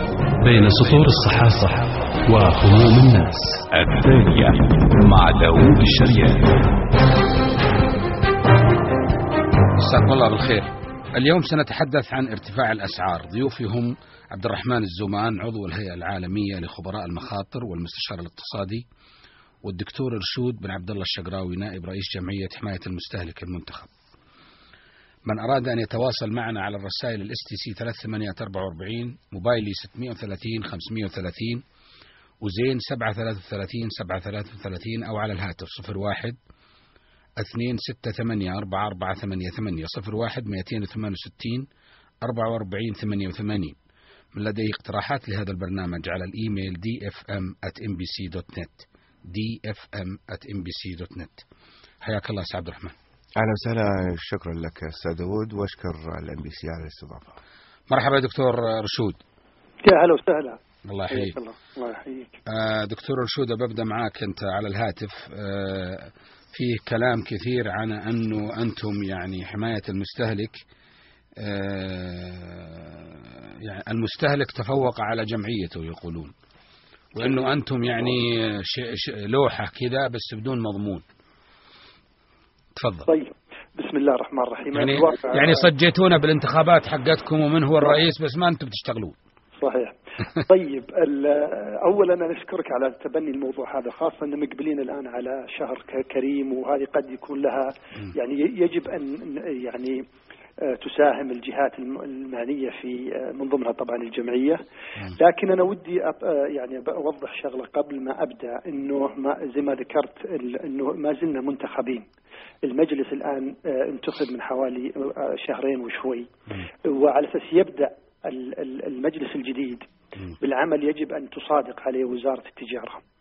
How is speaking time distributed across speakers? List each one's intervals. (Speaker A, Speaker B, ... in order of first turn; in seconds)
Speaker A: 0.4-3.6
Speaker B: 3.7-6.6
Speaker C: 9.8-18.8, 19.6-23.9, 25.3-31.6, 32.4-36.4, 37.4-41.6, 42.2-43.8, 44.3-51.4, 52.0-52.9, 57.9-59.2, 60.9-61.4, 62.5-70.6, 71.4-76.3, 77.1-81.0, 82.8-83.1, 84.7-89.2
Speaker D: 53.4-57.4
Speaker E: 59.8-62.4, 83.1-85.6, 89.6-89.9, 90.5-100.0, 100.7-104.6, 105.2-112.1, 112.6-116.3, 116.9-119.9, 120.4-123.0